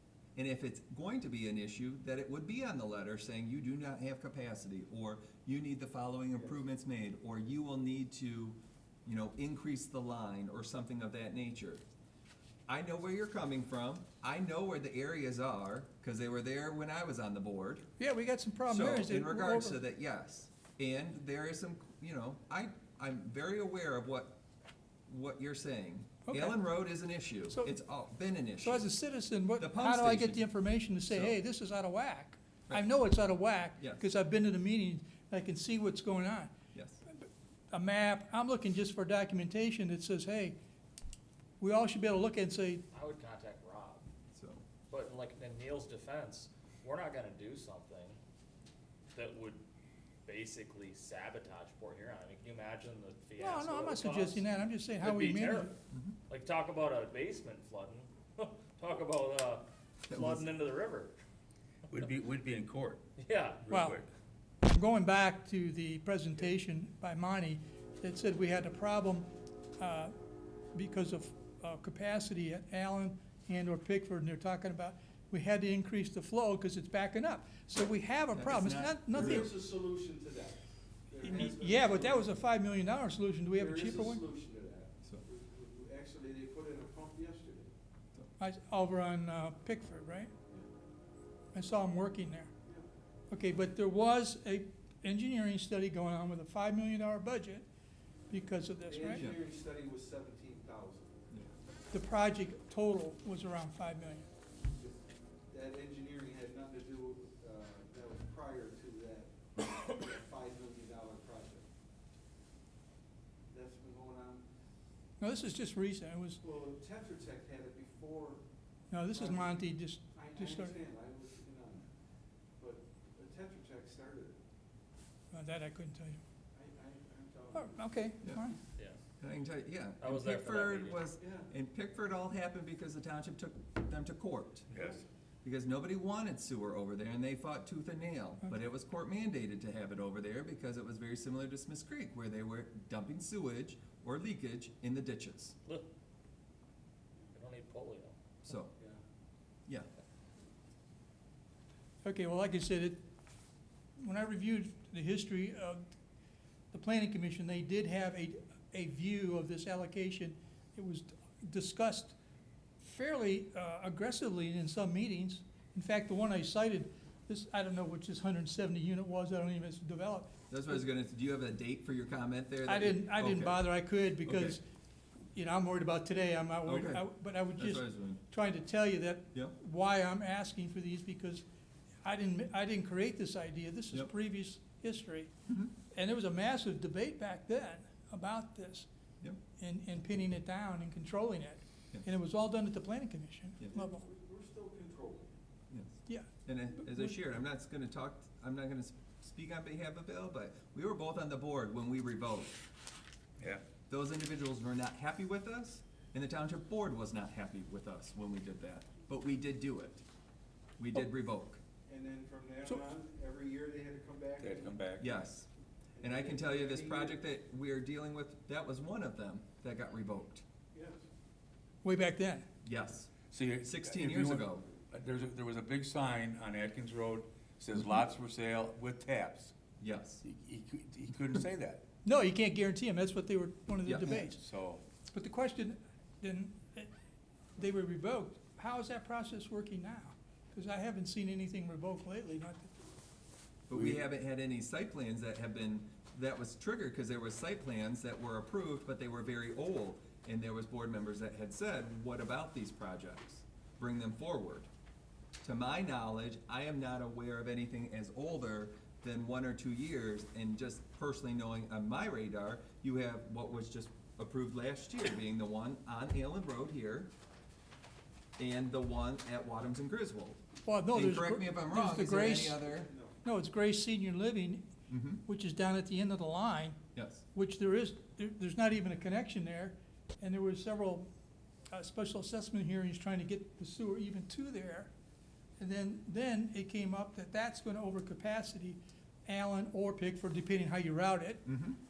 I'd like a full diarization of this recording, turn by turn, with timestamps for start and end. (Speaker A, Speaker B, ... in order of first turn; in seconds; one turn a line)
Speaker A: 0.3-11.8
Speaker A: 12.7-17.9
Speaker B: 18.0-19.8
Speaker A: 18.7-24.4
Speaker A: 25.1-28.9
Speaker B: 26.2-26.6
Speaker B: 28.6-36.5
Speaker A: 29.6-30.5
Speaker A: 31.0-31.4
Speaker A: 33.8-34.0
Speaker A: 36.7-37.0
Speaker B: 37.1-40.6
Speaker B: 41.6-42.8
Speaker C: 42.9-44.1
Speaker A: 44.3-44.6
Speaker C: 44.9-48.2
Speaker C: 49.1-49.6
Speaker C: 50.2-54.5
Speaker B: 53.4-55.7
Speaker C: 55.0-55.7
Speaker A: 55.9-56.2
Speaker C: 56.3-61.2
Speaker A: 60.1-60.4
Speaker D: 61.9-63.0
Speaker C: 63.2-63.7
Speaker D: 63.6-64.1
Speaker B: 63.7-64.0
Speaker B: 64.6-70.1
Speaker B: 70.7-79.5
Speaker A: 78.3-79.5
Speaker E: 79.1-82.3
Speaker B: 81.2-84.2
Speaker E: 83.6-87.7
Speaker B: 88.4-90.3
Speaker B: 91.5-92.5
Speaker B: 93.3-97.7
Speaker B: 98.3-99.3
Speaker E: 98.9-101.2
Speaker A: 99.1-99.4
Speaker B: 101.9-104.3
Speaker E: 104.7-111.6
Speaker E: 113.5-114.4
Speaker B: 115.2-116.4
Speaker E: 116.4-118.4
Speaker B: 118.9-120.8
Speaker E: 119.1-119.6
Speaker E: 120.1-121.9
Speaker E: 122.6-124.4
Speaker B: 125.3-126.2
Speaker E: 126.5-127.8
Speaker B: 127.5-128.5
Speaker A: 128.2-128.5
Speaker A: 129.2-134.7
Speaker C: 130.0-131.0
Speaker E: 131.2-131.5
Speaker D: 134.7-135.0
Speaker E: 134.7-135.0
Speaker A: 135.4-145.6
Speaker C: 147.3-148.2
Speaker A: 148.4-148.7
Speaker B: 152.0-153.0
Speaker B: 154.0-155.8
Speaker B: 156.7-162.2
Speaker B: 162.8-170.8
Speaker A: 170.5-173.6
Speaker B: 172.7-174.6
Speaker A: 174.2-174.6
Speaker B: 175.3-181.4
Speaker A: 176.6-177.1
Speaker A: 177.6-178.2
Speaker B: 182.0-185.3
Speaker B: 185.9-188.9
Speaker B: 189.6-194.0
Speaker E: 193.7-195.3
Speaker A: 195.7-202.6
Speaker B: 196.1-197.1
Speaker D: 203.4-203.6
Speaker A: 203.9-210.0
Speaker A: 210.8-211.6
Speaker E: 211.9-214.8
Speaker D: 214.4-215.1
Speaker A: 215.0-215.5
Speaker E: 216.0-217.2
Speaker A: 216.0-220.4
Speaker E: 220.7-221.0
Speaker B: 221.8-222.5
Speaker A: 222.6-223.1
Speaker D: 223.3-229.5
Speaker A: 223.6-224.6
Speaker A: 229.8-230.2
Speaker D: 230.2-231.8
Speaker B: 232.0-236.9
Speaker A: 233.8-234.3
Speaker D: 234.4-234.8
Speaker B: 237.6-242.7
Speaker A: 243.7-254.7
Speaker D: 243.7-244.0
Speaker A: 255.4-267.1
Speaker A: 268.4-270.4
Speaker B: 270.6-272.6
Speaker A: 270.9-272.9
Speaker E: 272.7-273.2
Speaker B: 273.2-274.7
Speaker A: 274.9-275.2
Speaker B: 275.2-276.8
Speaker A: 276.9-277.2
Speaker B: 277.3-281.1
Speaker B: 281.7-284.9
Speaker B: 285.6-291.5
Speaker A: 291.5-291.8